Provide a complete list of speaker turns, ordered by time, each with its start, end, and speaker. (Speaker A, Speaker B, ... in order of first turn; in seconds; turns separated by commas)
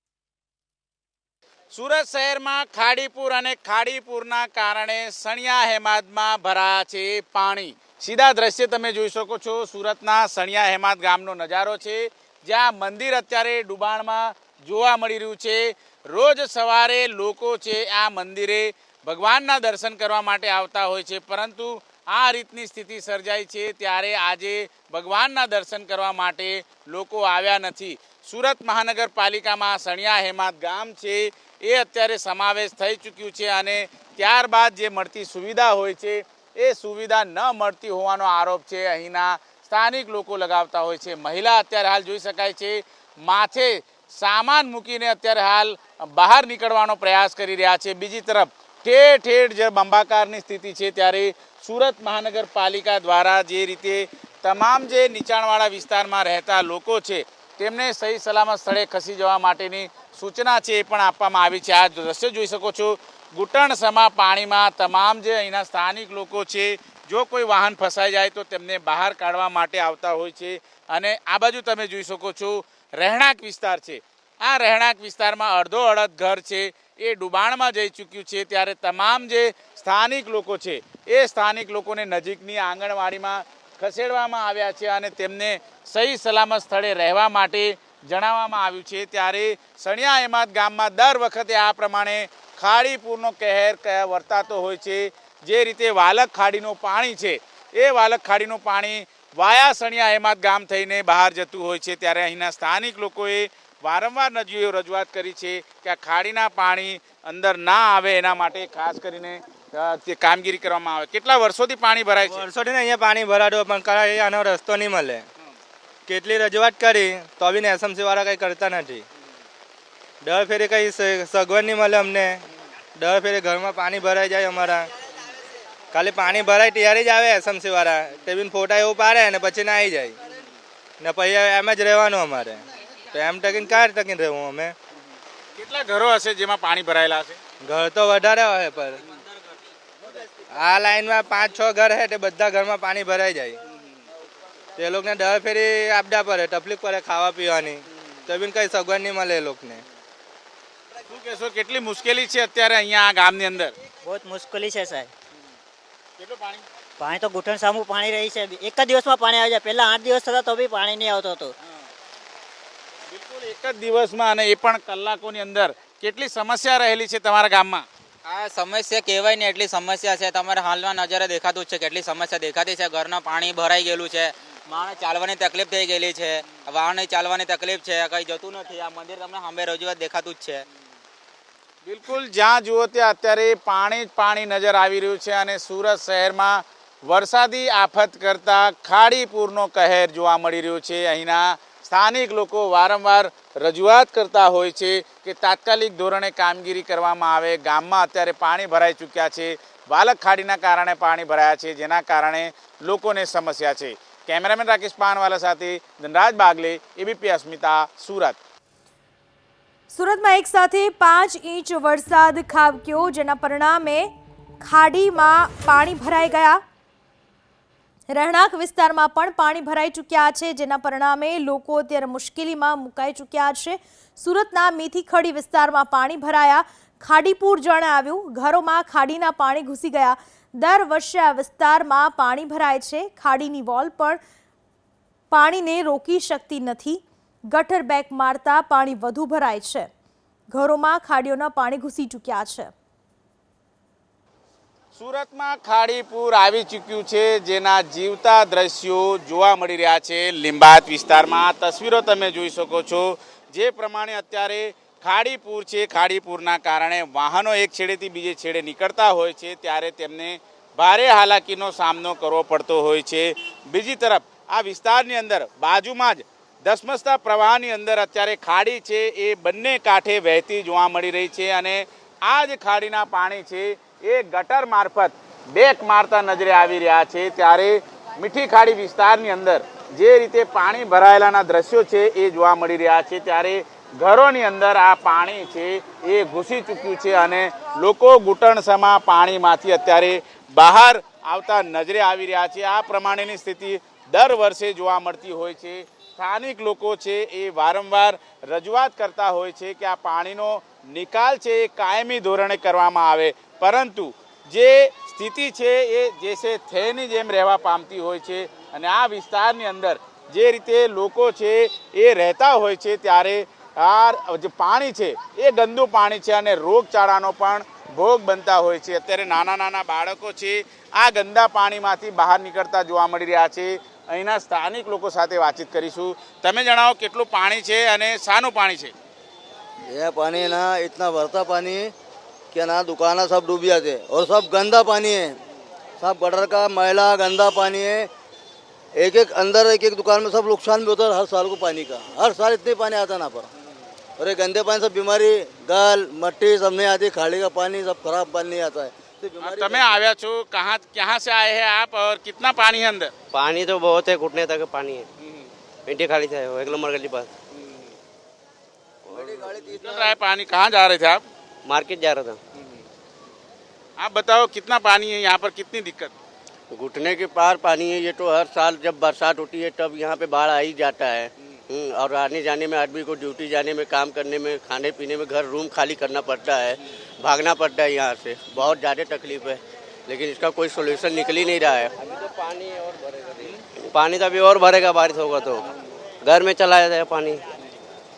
Speaker A: 1.7-112.4, Speaker B: 112.2-115.2, Speaker B: 116.1-119.0, Speaker B: 120.2-122.4, Speaker B: 123.0-124.9, Speaker B: 125.9-130.2, Speaker B: 131.0-134.8, Speaker A: 135.6-137.4, Speaker B: 137.6-139.0, Speaker B: 140.5-143.6, Speaker B: 144.8-149.8, Speaker A: 151.1-153.7, Speaker C: 154.0-155.1, Speaker A: 156.2-156.6, Speaker C: 157.0-161.5, Speaker A: 163.1-167.8, Speaker D: 168.2-180.6, Speaker A: 181.8-208.4, Speaker E: 209.9-216.6, Speaker E: 218.1-234.2, Speaker E: 235.3-239.9, Speaker E: 240.5-242.7, Speaker A: 244.9-328.9, Speaker F: 329.9-331.9, Speaker F: 332.5-335.4, Speaker F: 336.0-338.1, Speaker F: 338.9-343.5, Speaker F: 344.2-350.0, Speaker A: 349.4-353.1, Speaker G: 353.3-355.1, Speaker G: 355.9-357.3, Speaker G: 359.1-359.7, Speaker F: 359.1-360.1, Speaker A: 359.8-361.2, Speaker G: 361.6-362.4, Speaker A: 364.0-366.1, Speaker G: 366.7-385.7, Speaker G: 386.2-387.4